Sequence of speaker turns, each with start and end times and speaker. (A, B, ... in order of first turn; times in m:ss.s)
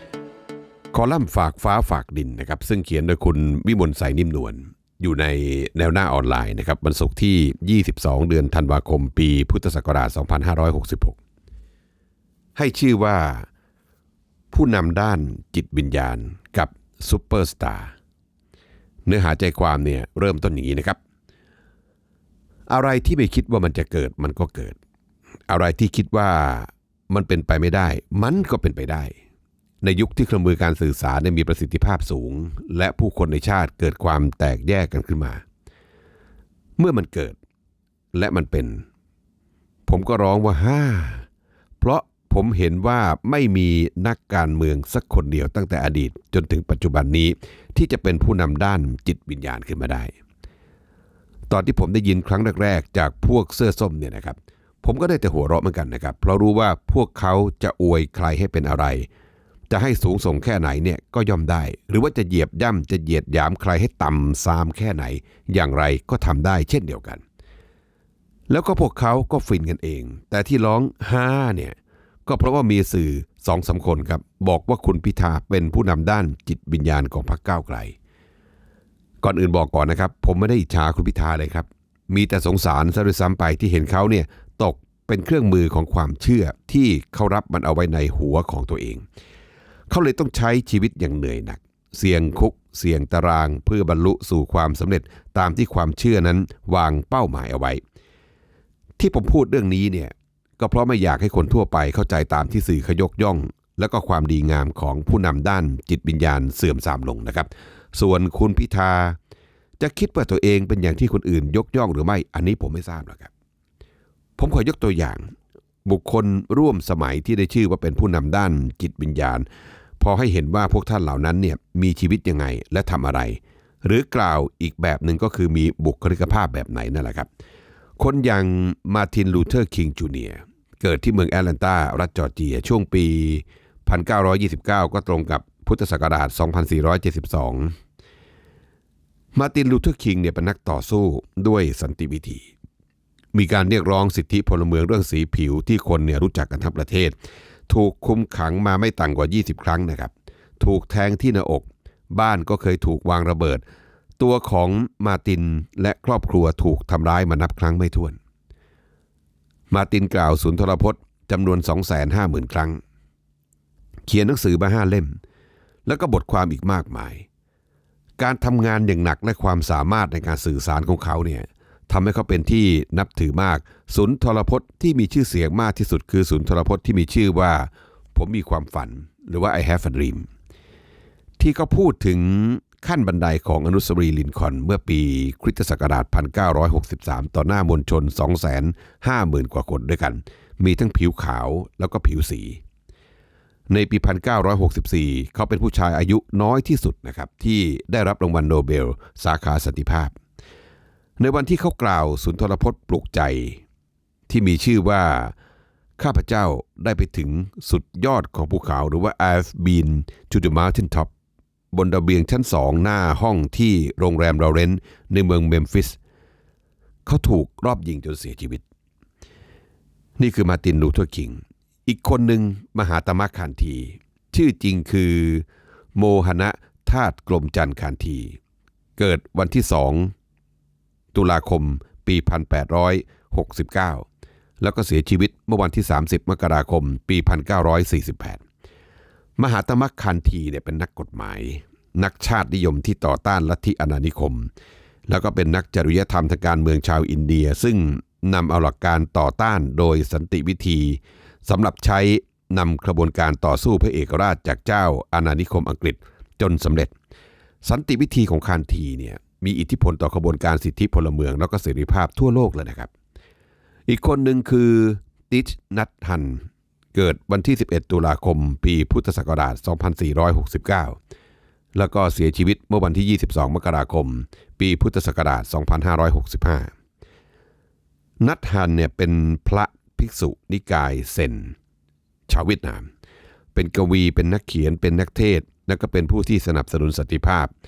0:00.9-0:11.2 A
0:12.6-0:13.5 A
0:14.5-0:17.9 A
0:19.0-0:21.0 A
0:22.7-0:24.8 A
0:25.5-0:29.1 A
0:29.8-0:35.4 A
0:36.8-0:37.4 A
0:38.1-0:38.8 A
0:39.9-0:41.3 A
0:41.8-0:50.1 A
0:51.5-0:59.1 A
0:59.7-1:07.2 A
1:08.5-1:17.9 A
1:19.2-1:29.0 A
1:29.9-1:37.8 A
1:39.0-1:49.2 A
1:49.8-1:53.3 A
1:54.4-1:55.3 A
1:55.8-1:59.4 A
2:00.0-2:07.3 A
2:08.0-2:17.7 A
2:19.3-2:22.5 A
2:23.3-2:27.2 A
2:27.7-2:33.6 A
2:34.2-2:38.2 A
2:39.7-2:42.8 A
2:44.1-2:45.2 A
2:45.8-2:47.2 A
2:48.2-3:00.3 A
3:01.4-3:12.6 A
3:13.7-3:20.1 A
3:21.2-3:23.6 A
3:24.3-3:25.3 A
3:26.0-3:31.1 A
3:31.7-3:36.0 A
3:37.0-3:38.6 A
3:40.2-3:45.4 A
3:46.0-3:48.4 A
3:49.0-3:50.1 A
3:51.1-3:54.0 A
3:54.6-3:58.4 A
3:59.4-4:04.5 A
4:05.1-4:16.9 A
4:17.6-4:22.9 A
4:23.9-4:31.0 A
4:31.7-4:36.7 A
4:38.2-4:41.5 A
4:42.3-4:42.9 A
4:43.5-4:47.5 A